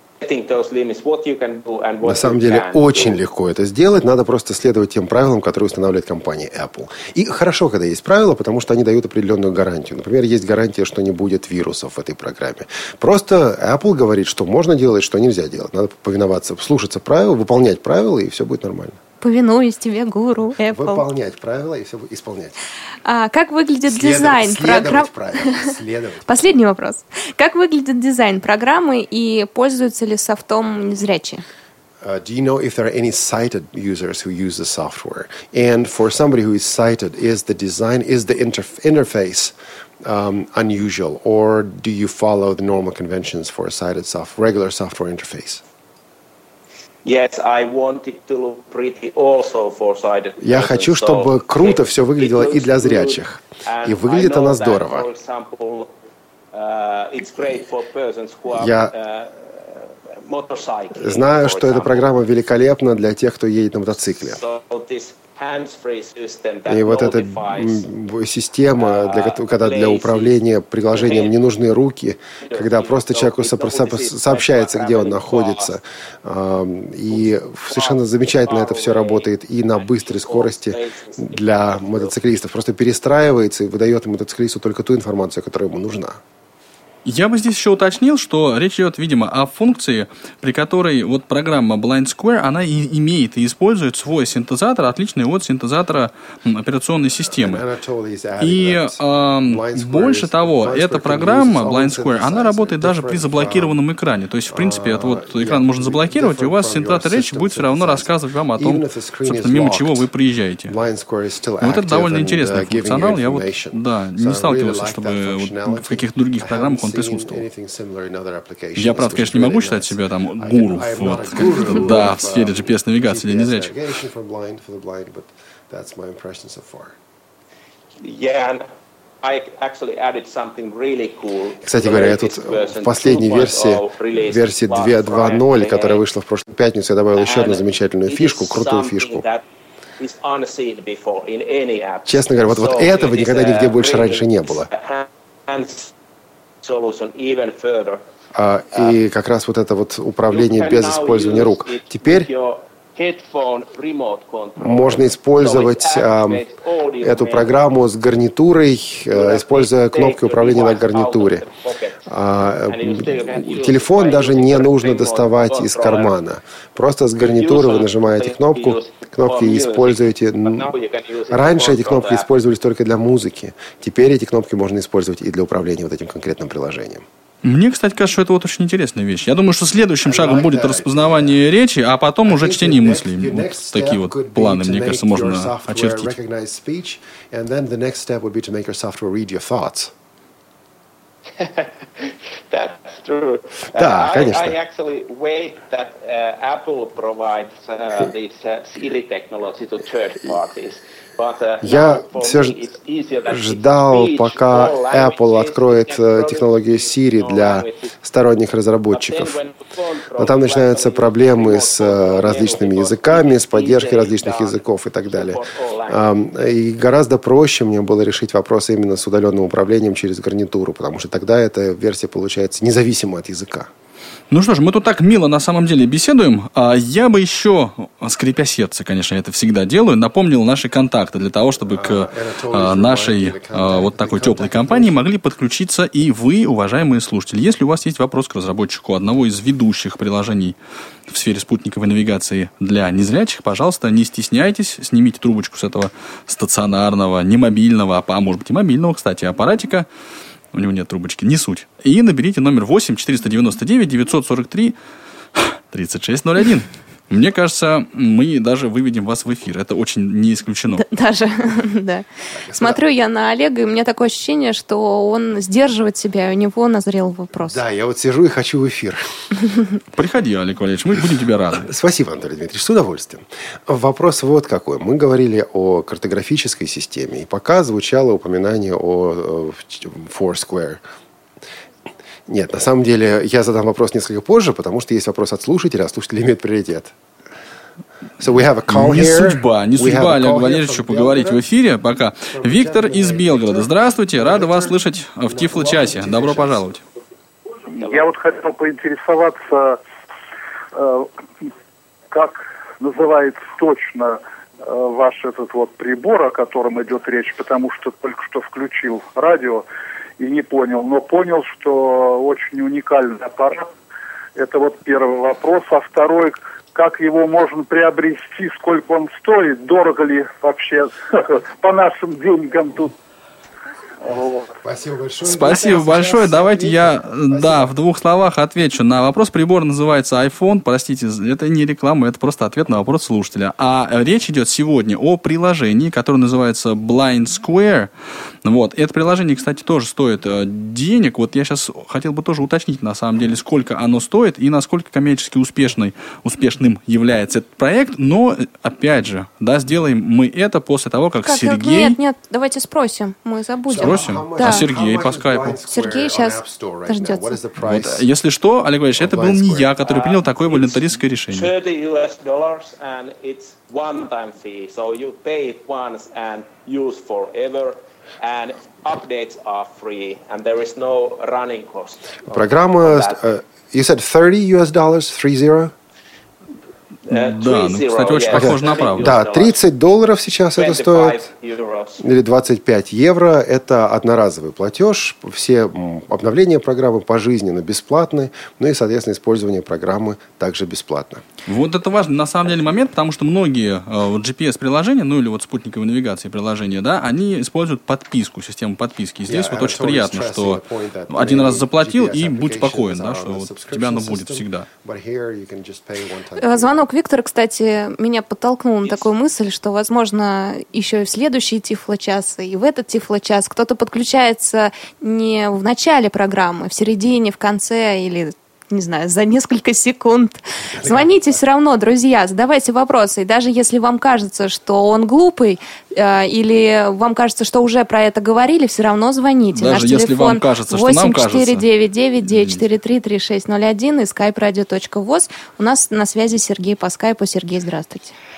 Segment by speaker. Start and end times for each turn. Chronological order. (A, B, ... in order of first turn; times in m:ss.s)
0:00.2-0:03.2 A
0:02.0-0:19.0 B
0:19.2-0:21.0 C
0:20.7-0:22.6 B
0:23.0-0:25.7 C
0:23.9-0:26.4 B
0:26.3-0:31.4 C
0:32.0-0:45.6 B
0:47.0-0:55.9 A
0:50.4-0:55.0 B
0:56.5-1:02.0 A
0:58.5-0:58.9 B
1:01.0-1:04.4 B
1:04.2-1:07.9 A
1:06.6-1:26.2 B
1:08.8-1:10.4 A
1:10.9-1:11.3 A
1:12.4-1:15.7 A
1:17.1-1:22.1 A
1:27.0-1:37.6 D
1:37.4-1:43.8 B
1:38.4-1:50.7 D
1:44.5-1:50.1 B
1:50.7-2:06.9 B
1:51.6-1:57.5 D
1:58.8-2:03.7 D
2:08.0-2:08.6 A
2:09.2-2:16.0 A
2:11.6-2:19.2 B
2:17.2-2:19.4 A
2:20.0-2:25.9 A
2:22.0-2:24.7 B
2:26.6-2:28.0 A
2:28.3-2:32.3 B
2:30.3-2:37.5 A
2:34.6-2:36.4 B
2:37.0-2:41.4 B
2:39.1-2:42.0 A
2:42.0-2:50.7 B
2:42.7-2:46.2 A
2:47.2-2:52.3 A
2:51.3-2:57.0 B
2:57.4-3:06.1 D
3:00.0-3:01.4 B
3:02.2-3:09.9 B
3:11.4-3:27.9 A
3:13.7-3:14.5 B
3:21.6-3:22.6 B
3:23.3-3:29.4 B
3:28.9-3:36.2 A
3:30.2-3:35.4 B
3:35.9-3:43.7 B
3:44.3-4:09.9 D
3:51.7-3:55.0 B
4:10.5-4:14.8 D
4:15.3-4:20.8 D
4:20.8-4:27.6 C
4:22.3-4:22.8 B
4:27.4-4:29.1 B
4:29.9-4:31.7 D
4:31.5-4:40.8 B
4:42.3-4:46.9 B
4:48.2-4:51.4 B
4:48.7-4:56.8 D
4:52.3-4:56.7 B
4:57.7-4:59.8 E
4:57.8-4:58.1 A
5:00.7-5:01.5 E
5:02.1-5:09.6 E
5:10.2-5:13.7 E
5:14.4-5:22.9 E
5:24.0-5:24.5 E
5:24.1-5:27.7 B
5:25.2-5:37.9 D
5:38.4-5:52.0 D
5:51.2-5:54.7 C
5:53.7-5:58.0 B
5:53.8-5:55.6 D
5:55.6-5:57.4 C
5:57.6-6:01.5 D
5:59.0-5:59.7 B
5:59.8-6:13.2 A
6:12.3-6:15.7 B
6:17.1-6:19.2 D
6:17.1-6:19.6 A
6:18.3-6:21.3 B
6:20.6-6:22.0 A
6:22.0-6:31.2 B
6:31.4-6:44.7 D
6:39.2-6:46.8 B
6:46.4-7:18.1 C
7:00.7-7:01.4 B
7:09.5-7:11.6 D
7:12.2-7:12.6 D